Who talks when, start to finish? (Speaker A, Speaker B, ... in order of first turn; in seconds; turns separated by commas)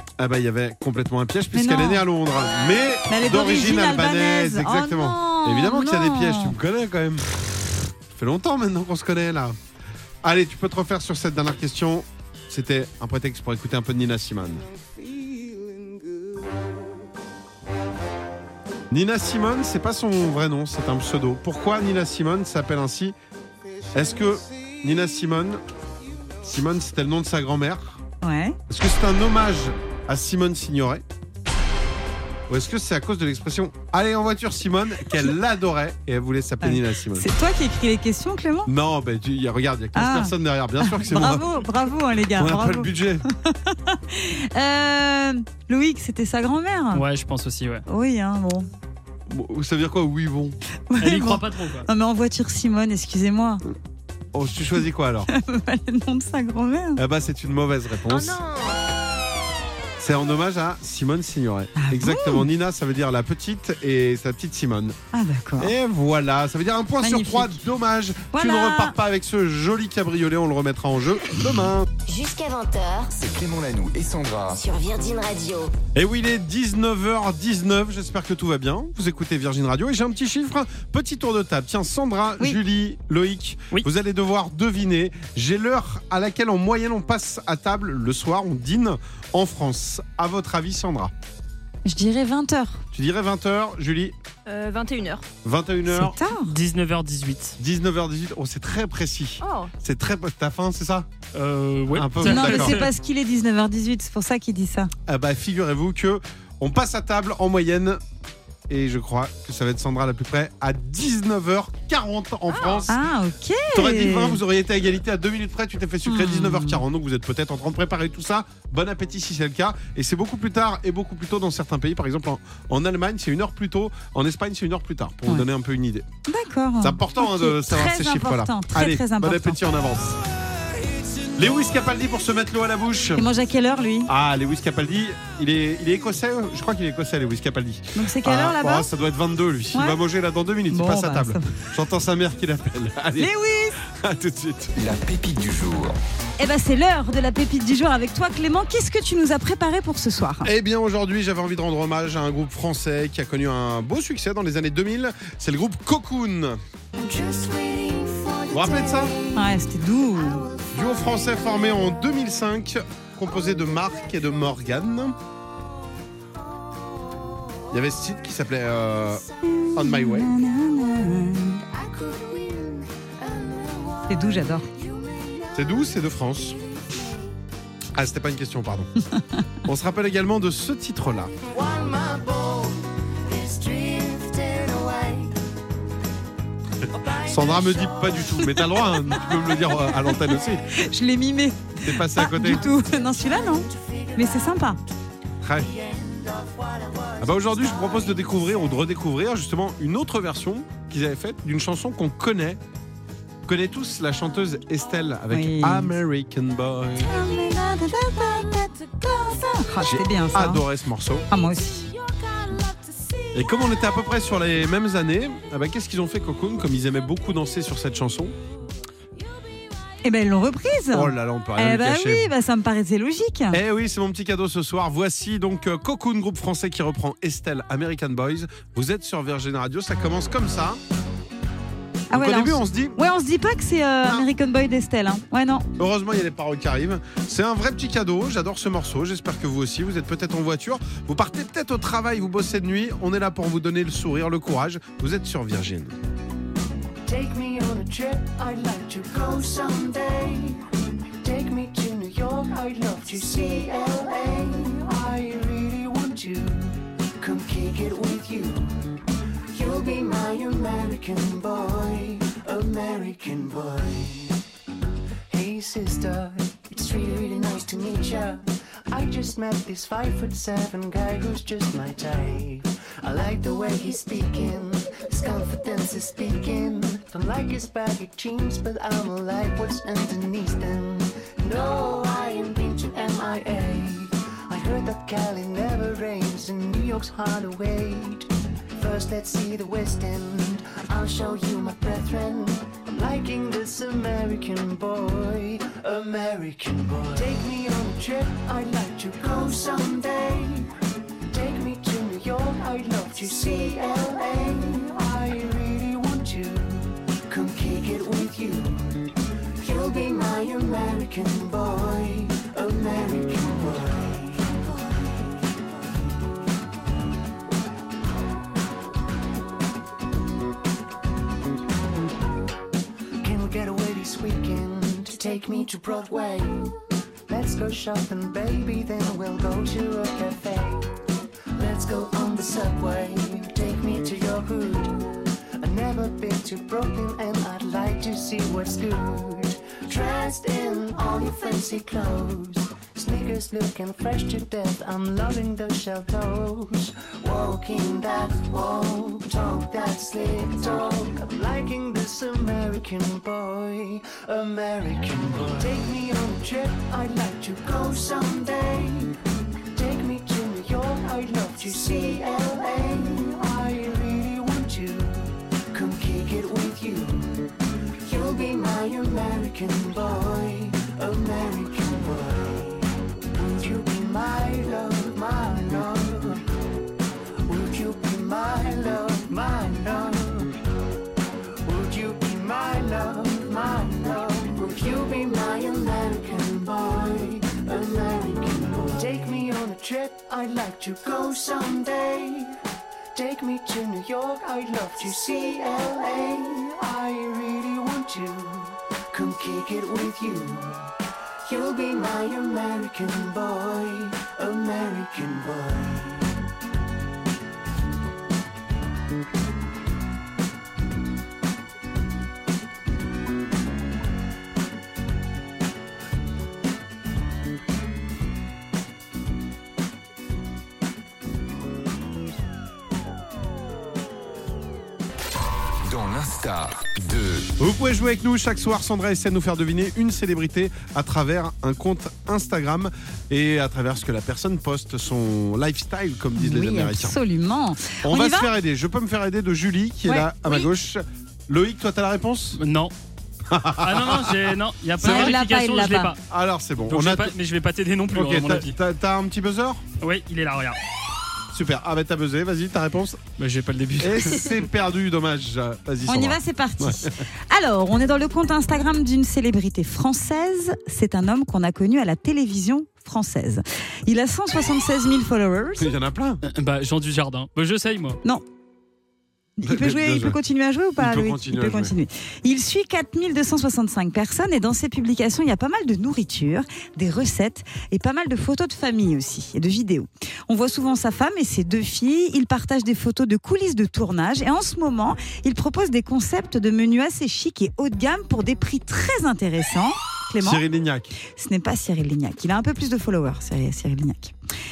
Speaker A: 0.2-7.5, Speaker B: 1.5-2.0, Speaker B: 3.1-6.5, Speaker A: 8.1-9.6, Speaker A: 10.2-14.7, Speaker A: 18.9-23.1, Speaker A: 23.9-25.6, Speaker A: 26.4-28.0, Speaker B: 28.2-28.6, Speaker A: 28.7-31.0, Speaker A: 32.5-37.3, Speaker B: 36.6-38.7, Speaker A: 38.7-41.5, Speaker B: 40.0-42.9, Speaker A: 42.3-43.2, Speaker B: 43.4-47.0, Speaker C: 46.9-47.8, Speaker B: 47.9-48.7, Speaker A: 49.3-50.6, Speaker B: 50.9-53.6, Speaker C: 51.0-51.9, Speaker A: 54.3-55.3, Speaker B: 55.3-57.0, Speaker A: 57.0-58.4, Speaker D: 58.1-58.8, Speaker A: 60.0-65.0, Speaker B: 61.8-62.5, Speaker B: 65.1-65.7, Speaker A: 65.6-71.9, Speaker B: 67.0-67.6, Speaker B: 68.3-69.0, Speaker E: 72.1-73.1, Speaker F: 73.1-74.6, Speaker E: 74.6-75.7, Speaker A: 76.0-91.1, Speaker B: 91.8-92.8, Speaker A: 92.9-94.1, Speaker D: 94.5-95.2, Speaker A: 95.4-96.2, Speaker B: 95.9-96.5, Speaker C: 96.5-97.6, Speaker A: 97.6-101.1, Speaker D: 99.4-99.7, Speaker C: 101.3-102.9, Speaker A: 101.9-102.8, Speaker B: 102.2-104.9, Speaker A: 105.1-108.0, Speaker A: 108.7-113.0, Speaker D: 112.5-112.9, Speaker B: 112.9-114.4, Speaker A: 113.7-126.1, Speaker B: 116.1-116.8, Speaker B: 126.3-129.6, Speaker A: 126.8-130.2, Speaker A: 131.4-133.3, Speaker B: 133.2-134.1, Speaker A: 134.1-144.7, Speaker B: 137.9-138.9, Speaker B: 139.7-140.0, Speaker B: 140.7-141.5, Speaker B: 143.2-143.8, Speaker F: 144.8-146.0, Speaker B: 146.4-150.5, Speaker A: 150.4-156.6, Speaker G: 157.0-161.8, Speaker A: 158.5-159.1, Speaker B: 159.3-160.5, Speaker A: 160.7-165.2, Speaker A: 167.7-170.3, Speaker B: 169.6-171.6, Speaker G: 171.6-177.3, Speaker B: 174.1-174.7, Speaker A: 175.6-176.6, Speaker A: 177.9-178.9, Speaker A: 179.7-181.3, Speaker G: 181.5-185.3, Speaker G: 186.9-188.4, Speaker A: 187.2-190.6, Speaker G: 189.1-189.6, Speaker B: 190.7-194.8, Speaker A: 191.8-192.7, Speaker G: 192.4-194.7, Speaker A: 195.4-195.7, Speaker G: 195.6-198.5, Speaker A: 197.2-202.6, Speaker A: 203.5-207.1, Speaker B: 205.3-205.9, Speaker B: 207.0-210.6, Speaker A: 209.8-211.3, Speaker B: 211.3-211.9, Speaker A: 213.3-218.3, Speaker B: 220.0-223.6, Speaker A: 220.9-222.3, Speaker A: 223.5-230.8, Speaker A: 232.1-233.0, Speaker B: 232.1-235.7, Speaker A: 235.8-245.9, Speaker G: 247.1-250.7, Speaker G: 251.2-259.0, Speaker G: 259.5-264.4, Speaker G: 265.3-300.8, Speaker G: 301.3-314.9, Speaker G: 323.2-331.0, Speaker G: 331.6-376.4, Speaker G: 377.5-380.6, Speaker G: 381.6-392.6, Speaker G: 393.1-400.9, Speaker G: 401.4-406.4, Speaker F: 425.8-427.5, Speaker A: 427.6-437.2, Speaker B: 436.4-438.5, Speaker A: 438.0-442.6, Speaker B: 440.1-440.7, Speaker C: 442.6-442.9, Speaker A: 443.5-444.4, Speaker C: 443.8-446.2, Speaker B: 445.0-446.1, Speaker A: 445.0-445.4, Speaker A: 446.3-447.4, Speaker C: 446.9-448.8, Speaker A: 448.1-449.9, Speaker C: 450.0-450.8, Speaker A: 451.5-453.3, Speaker C: 453.4-454.5, Speaker A: 454.0-457.1, Speaker B: 456.1-465.9, Speaker A: 465.8-466.4, Speaker C: 466.4-468.2, Speaker B: 469.6-490.6, Speaker A: 469.6-470.4, Speaker A: 471.0-471.9, Speaker A: 490.4-491.1, Speaker B: 491.3-494.3